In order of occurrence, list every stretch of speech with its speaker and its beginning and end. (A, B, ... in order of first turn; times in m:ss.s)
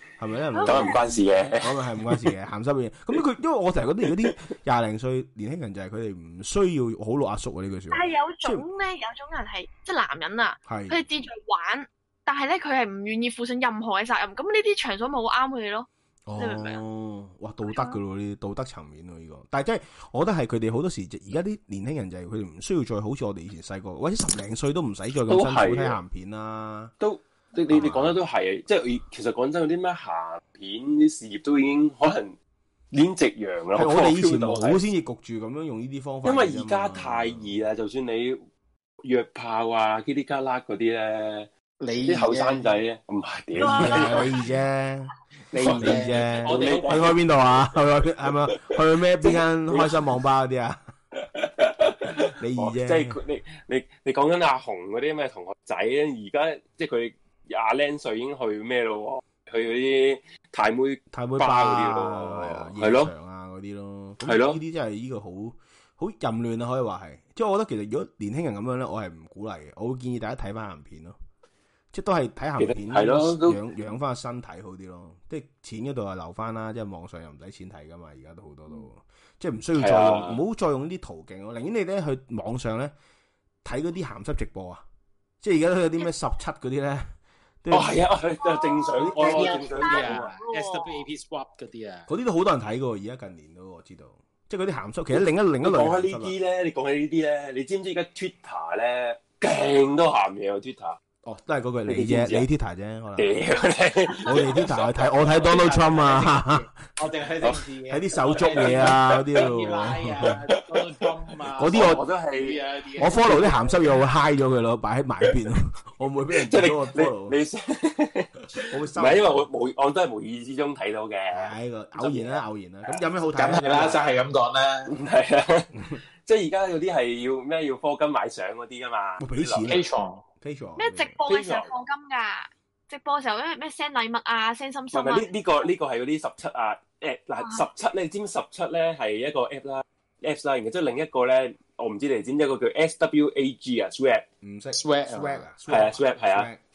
0:00.2-0:01.1 A
0:00.5-0:01.0 B
0:00.6-0:02.3 C
0:01.6-0:08.7 A
0:07.9-0:16.8 B
0:10.7-0:11.0 A
0:16.3-0:26.9 A
0:17.7-0:18.0 B
0:25.3-0:26.0 C
0:27.0-0:32.4 C
0:27.7-0:28.2 A
0:32.9-0:34.8 C
0:33.7-0:37.5 A
0:36.2-0:38.4 C
0:39.0-0:41.5 C
0:41.8-0:42.7 D
0:42.1-0:44.3 C
0:43.6-0:45.1 A
0:43.6-0:44.4 B
0:45.5-0:47.2 D
0:45.5-0:47.2 C
0:45.6-0:50.8 A
0:48.5-0:50.1 C
0:51.2-1:03.1 C
0:52.4-0:53.2 A
1:01.1-1:11.2 A
1:04.2-1:04.6 C
1:11.9-1:22.9 A
1:12.6-1:13.6 C
1:19.8-1:20.4 C
1:23.6-1:24.8 A
1:25.4-1:27.1 A
1:27.6-1:28.1 A
1:27.7-1:30.3 C
1:28.4-1:31.0 B
1:29.0-1:29.7 A
1:29.1-1:32.1 D
1:32.1-1:36.4 A
1:35.2-1:41.0 C
1:41.2-1:43.3 A
1:41.9-1:42.4 C
1:43.2-1:45.5 C
1:44.2-1:46.7 A
1:45.0-1:53.9 D
1:47.9-1:50.4 A
1:48.3-1:49.4 C
1:50.2-1:51.0 C
1:51.6-1:52.0 A
1:51.7-1:53.4 C
1:53.0-1:57.4 A
1:56.5-2:02.4 C
1:58.7-1:59.5 A
2:01.3-2:04.0 A
2:03.4-2:04.9 D
2:04.9-2:09.8 C
2:09.2-2:09.9 A
2:09.7-2:10.2 D
2:10.4-2:11.2 A
2:10.8-2:15.3 B
2:11.3-2:11.7 C
2:14.9-2:24.2 C
2:24.4-2:26.6 A
2:24.7-2:25.5 D
2:25.7-2:26.5 C